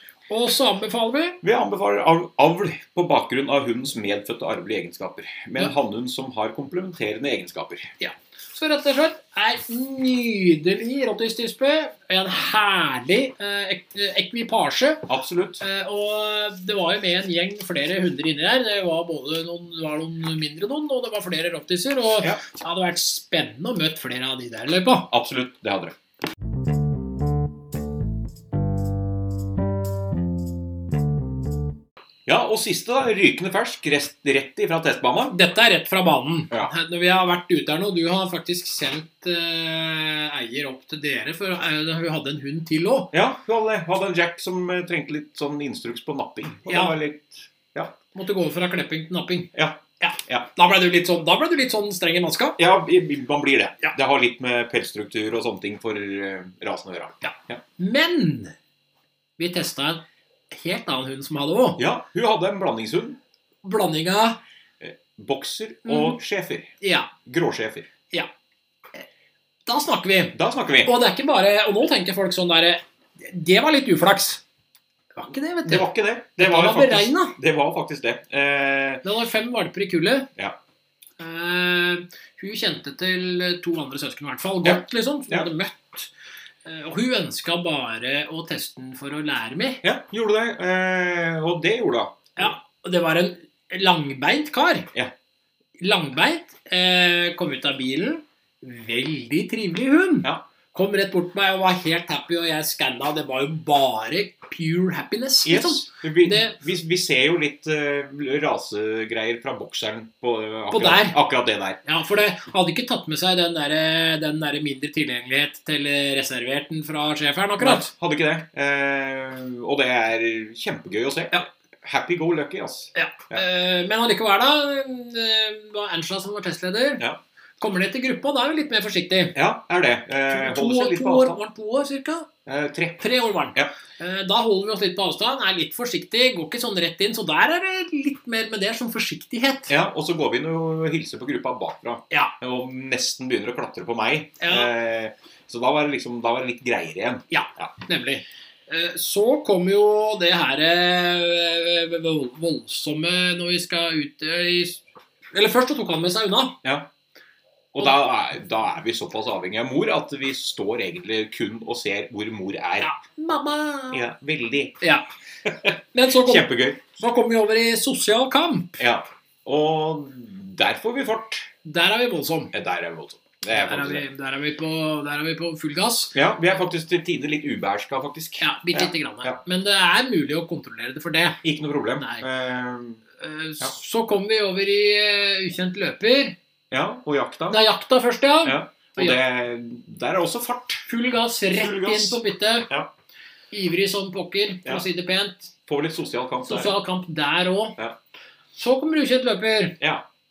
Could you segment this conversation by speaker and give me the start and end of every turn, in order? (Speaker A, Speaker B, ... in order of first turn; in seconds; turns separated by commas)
Speaker A: 0.3-1.4, Speaker B: 1.4-7.9, Speaker A: 8.0-15.1, Speaker B: 15.1-15.6, Speaker A: 15.6-25.1, Speaker B: 25.1-26.0, Speaker B: 32.3-35.4, Speaker A: 35.3-43.1, Speaker B: 43.1-48.0, Speaker A: 46.7-47.0, Speaker A: 48.1-52.6, Speaker B: 49.5-50.5, Speaker B: 52.6-57.6, Speaker A: 57.2-58.5, Speaker A: 59.4-61.8, Speaker B: 61.8-63.2, Speaker A: 63.6-64.4, Speaker B: 64.8-67.9, Speaker A: 65.9-66.2, Speaker A: 66.8-67.1, Speaker A: 69.7-74.4, Speaker B: 70.3-70.9, Speaker A: 75.2-75.9, Speaker B: 75.7-79.0, Speaker A: 76.4-77.3, Speaker A: 79.0-80.3, Speaker A: 81.2-86.1, Speaker B: 84.6-85.5, Speaker A: 86.7-89.8, Speaker B: 89.8-92.5, Speaker A: 92.4-94.9, Speaker A: 95.8-106.6, Speaker B: 105.4-111.8, Speaker A: 110.7-111.2, Speaker A: 111.8-117.9, Speaker B: 117.6-123.4, Speaker A: 123.0-127.1, Speaker A: 127.6-129.4, Speaker B: 129.3-131.4, Speaker A: 130.3-132.3, Speaker B: 132.5-133.0, Speaker A: 133.0-139.7, Speaker B: 139.7-147.7, Speaker A: 144.4-144.7, Speaker A: 147.3-156.6, Speaker B: 157.7-162.9, Speaker A: 162.8-164.0, Speaker B: 163.9-164.8, Speaker B: 165.5-166.8, Speaker A: 165.9-168.8, Speaker B: 168.8-171.5, Speaker A: 171.6-172.5, Speaker B: 172.5-174.1, Speaker A: 173.5-176.2, Speaker B: 176.1-179.4, Speaker A: 178.4-181.4, Speaker B: 181.4-183.0, Speaker A: 182.0-182.3, Speaker A: 183.2-186.4, Speaker B: 186.7-187.6, Speaker A: 187.5-189.2, Speaker B: 188.4-190.8, Speaker A: 190.9-192.7, Speaker B: 191.5-192.9, Speaker A: 193.5-195.5, Speaker B: 195.7-196.7, Speaker A: 196.4-197.8, Speaker A: 198.6-199.8